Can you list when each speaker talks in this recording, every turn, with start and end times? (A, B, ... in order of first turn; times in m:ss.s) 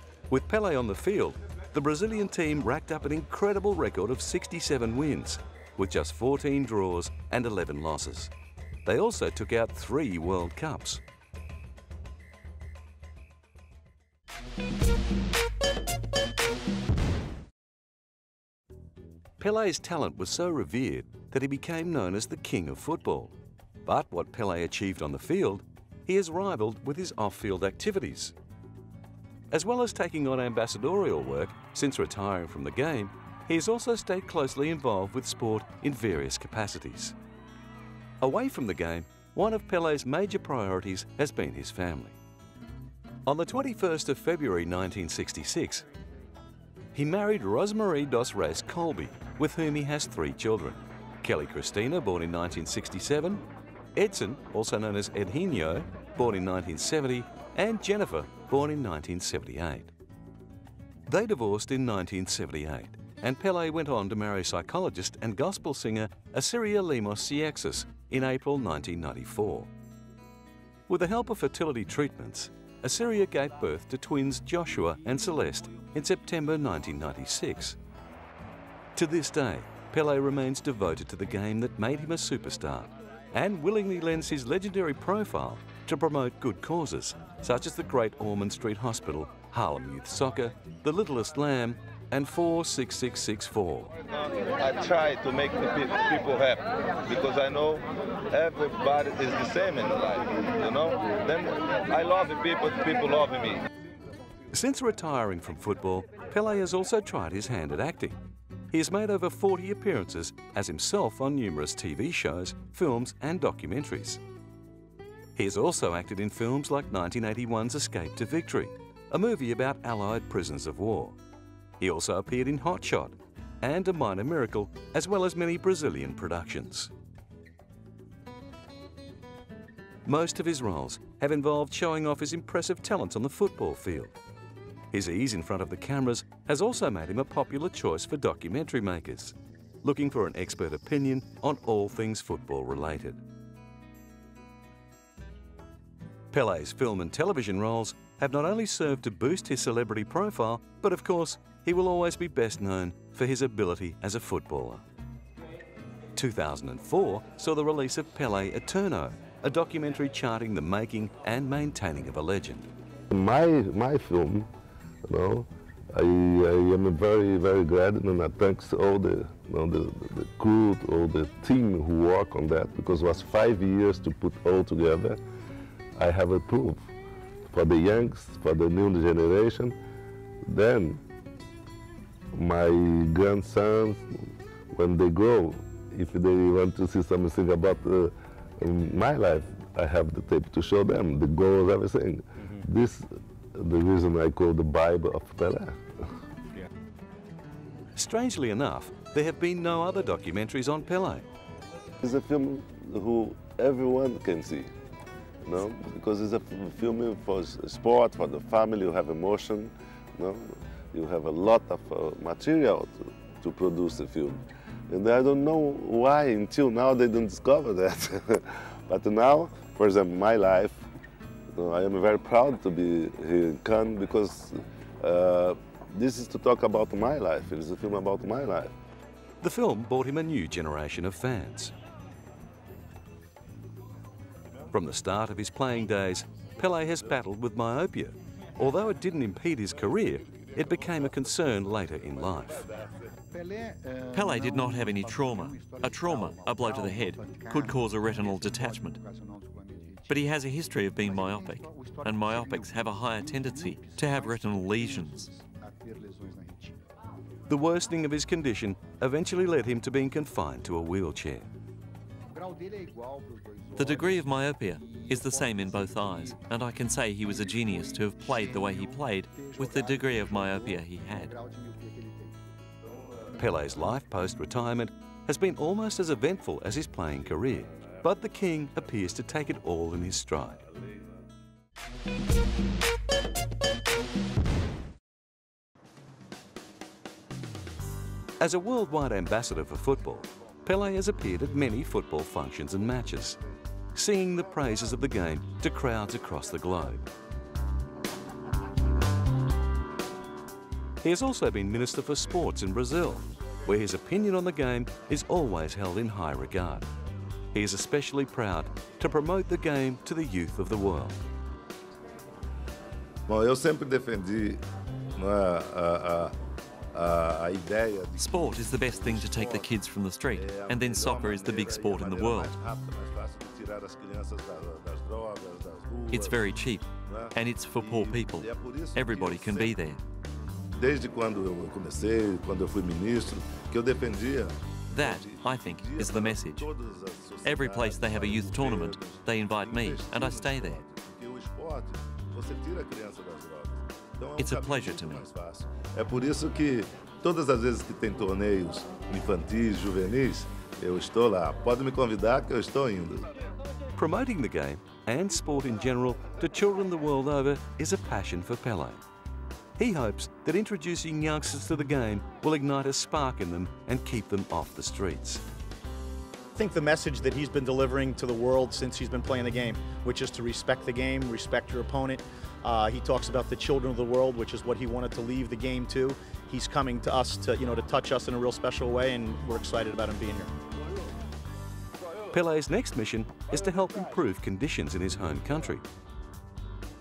0:00.3-0:08.3 A
0:08.8-0:11.0 A
0:19.4-0:28.3 A
0:29.5-0:37.1 A
0:38.2-0:42.2 A
0:43.2-0:45.8 A
0:46.9-0:53.4 A
0:53.9-0:59.9 A
1:01.1-1:09.7 A
1:10.9-1:17.8 A
1:18.9-1:33.9 A
1:34.1-1:43.6 B
1:44.5-1:48.2 A
1:48.7-1:54.2 A
1:55.4-2:01.2 A
2:01.8-2:06.9 A
2:10.0-2:14.2 A
2:14.9-2:23.2 A
2:26.3-2:34.8 A
2:36.2-2:42.7 A
2:43.1-2:44.5 C
2:45.0-2:55.2 C
2:56.0-2:56.9 C
2:57.5-2:59.8 C
3:00.4-3:01.0 C
3:02.3-3:15.8 C
3:17.9-3:21.3 A
3:22.0-3:24.7 C
3:25.4-3:40.8 C
3:41.5-3:48.7 C
3:49.4-3:51.7 A
3:54.7-4:02.6 A
4:00.2-4:03.1 C
4:04.1-4:09.0 D
4:10.1-4:15.3 D
4:17.5-4:21.5 A
4:23.8-4:31.3 D
4:32.8-4:33.3 C
4:33.4-4:40.7 A
4:40.7-4:41.0 C
4:48.4-4:53.4 A
4:53.9-4:57.1 A
5:01.0-5:06.9 A
5:07.5-5:11.2 A
5:13.3-5:14.6 C
5:15.2-5:16.4 C
5:16.9-5:19.7 C
5:18.2-5:22.5 D
5:20.3-5:26.4 C
5:26.1-5:30.0 D
5:27.1-5:29.8 C
5:30.7-5:53.3 C
5:34.9-5:36.7 D
5:37.4-5:40.8 D
5:44.4-5:45.3 D
5:54.0-5:59.0 A
5:59.8-6:05.4 A
6:06.6-6:20.5 E
6:22.3-6:25.8 A